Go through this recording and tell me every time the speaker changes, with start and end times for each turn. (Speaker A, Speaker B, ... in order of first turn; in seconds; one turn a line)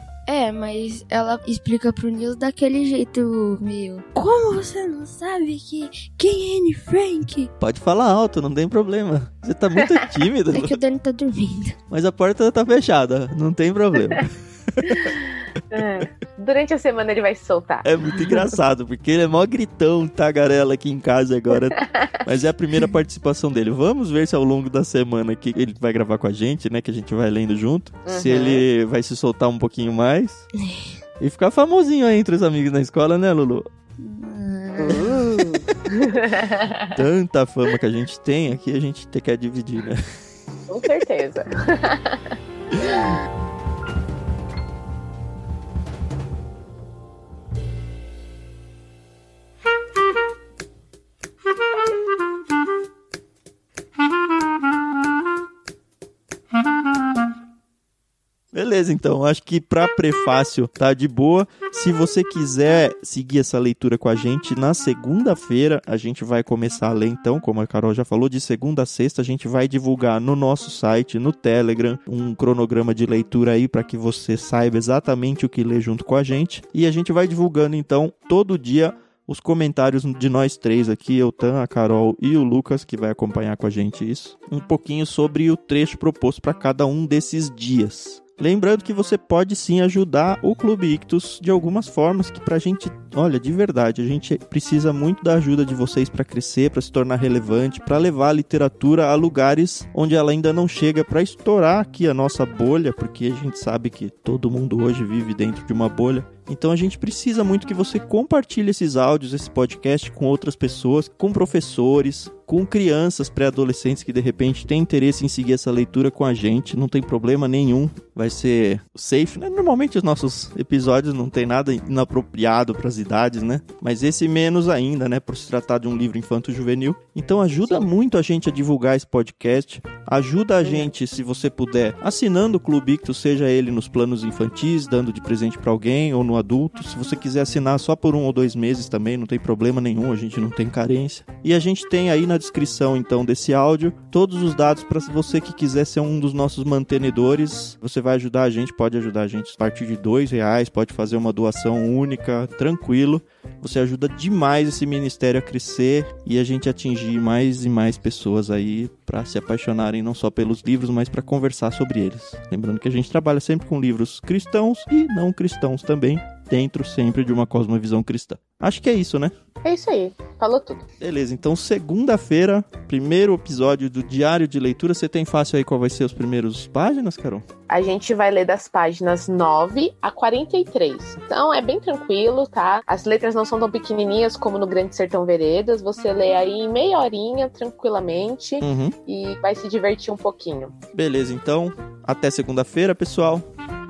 Speaker A: 0.3-7.5
Speaker B: 7.6-10.8
Speaker A: 10.5-11.8
Speaker B: 11.9-15.1
Speaker C: 14.8-18.4
Speaker B: 17.8-30.5
Speaker C: 21.5-22.2
Speaker C: 28.1-28.6
Speaker A: 30.6-30.9
Speaker B: 31.2-33.6
Speaker A: 34.0-35.2
Speaker C: 34.8-36.9
Speaker B: 36.9-40.0
Speaker C: 40.7-42.3
Speaker B: 42.7-43.0
Speaker B: 58.5-169.3
Speaker C: 130.6-130.9
Speaker C: 169.6-170.8
Speaker B: 171.0-177.4
Speaker C: 177.7-190.7
Speaker B: 188.6-188.9
Speaker B: 190.9-193.4